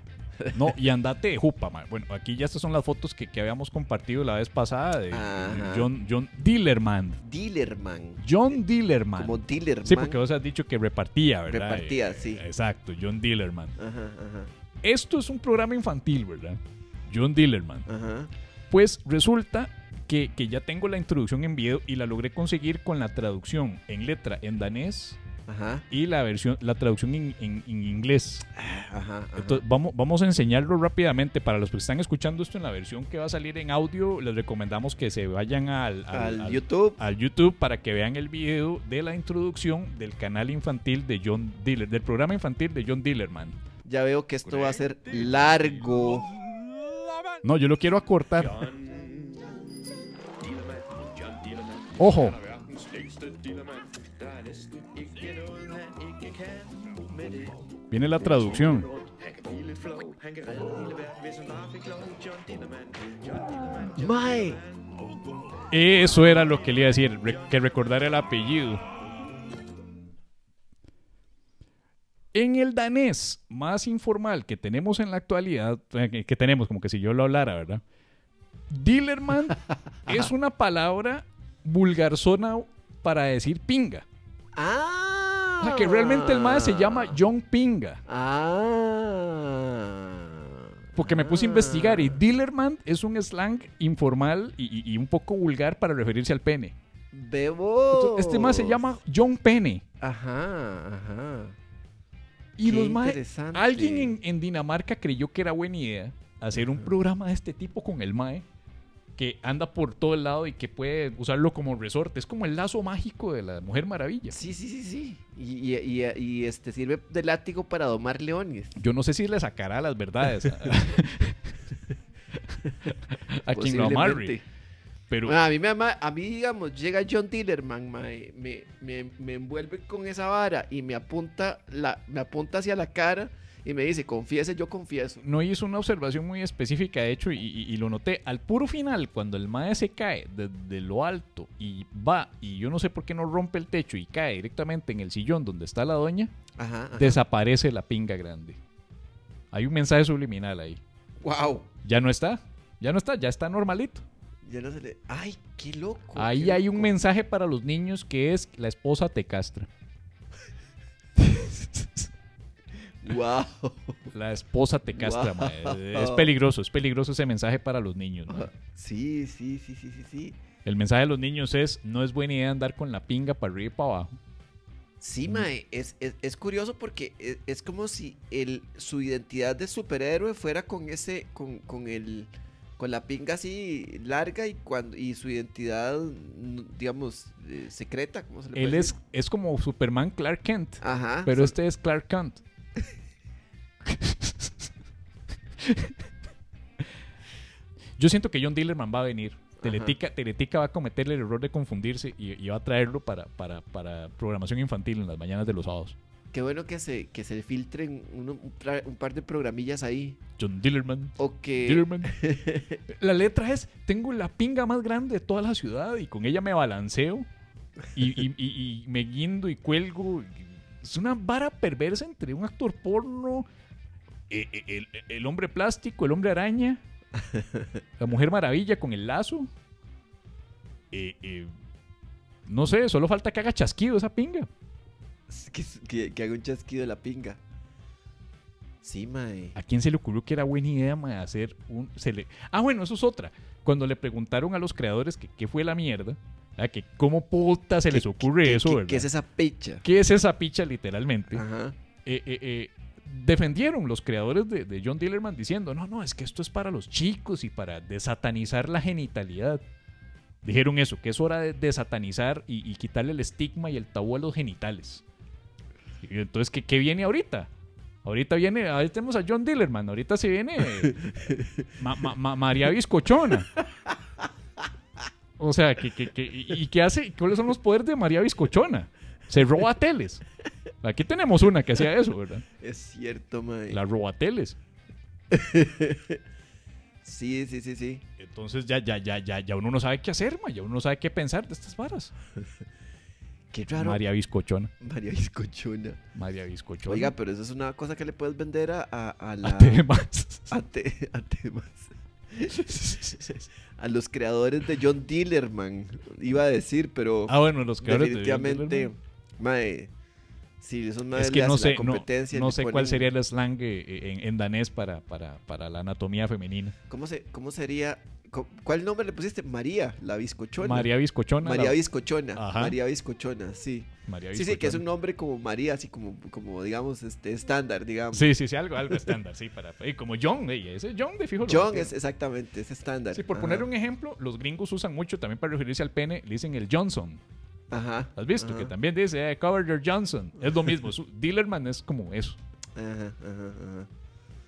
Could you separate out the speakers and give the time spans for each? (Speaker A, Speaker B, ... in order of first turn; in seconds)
Speaker A: 0.5-7.2, 8.2-13.7, 14.8-17.9, 18.7-25.2, 25.9-28.4, 29.4-43.6, 47.4-48.6, 52.0-52.4, 57.9-58.9, 65.7-68.8, 72.3-77.8, 78.7-84.0, 85.6-88.0, 91.0-96.8, 97.9-99.8, 102.6-108.5, 109.2-114.4, 118.8-121.5, 122.8-124.4, 125.1-125.3, 135.2-146.3, 146.9-148.6, 149.5-150.8, 151.8-154.0, 156.2-159.7, 161.2-162.1, 164.1-168.5, 170.6-174.2, 188.5-192.4, 193.8-194.7, 195.6-196.0, 198.0-205.9, 210.4-212.2, 212.9-217.3, 217.9-223.5, 224.3-226.8, 228.0-229.5, 230.9-231.5, 232.4-234.5, 239.6-249.1, 249.8-251.4, 252.0-259.6, 260.4-265.0, 266.0-267.5, 268.0-271.1, 271.7-273.5, 275.4-280.2, 280.8-282.4, 283.7-284.6, 288.2-292.1, 293.8-294.7, 296.1-297.1, 299.4-300.5, 302.7-303.3, 307.3-308.9, 311.1-316.7, 320.6-321.8, 322.3-322.8, 324.1-324.8, 328.1-331.9, 333.1-337.2, 338.1-342.4
Speaker B: 5.1-5.9, 7.2-8.2, 9.2-10.2, 11.5-12.4, 13.8-14.5, 17.9-18.3, 25.5-25.9, 28.5-29.6, 36.1-37.0, 43.8-46.3, 63.9-64.6, 84.5-87.2, 88.1-92.2, 97.1-98.8, 100.0-101.5, 102.6-104.2, 114.3-118.8, 123.5-124.4, 125.2-135.2, 146.6-147.2, 151.2-151.7, 154.4-156.9, 163.0-164.1, 164.9-166.3, 168.3-170.3, 175.0-188.9, 190.8-191.5, 199.6-199.9, 206.3-210.2, 211.2-212.8, 227.2-227.8, 235.3-237.4, 238.8-239.6, 247.9-249.8, 251.3-251.8, 282.6-283.8, 285.3-286.2, 287.0-288.0, 293.5-294.0, 294.8-296.0, 296.8-299.9, 300.5-309.9, 310.6-313.1, 316.9-320.9, 321.4-328.3, 331.4-333.7, 337.7-338.7, 342.8-343.9
Speaker C: 48.4-49.5, 50.4-68.1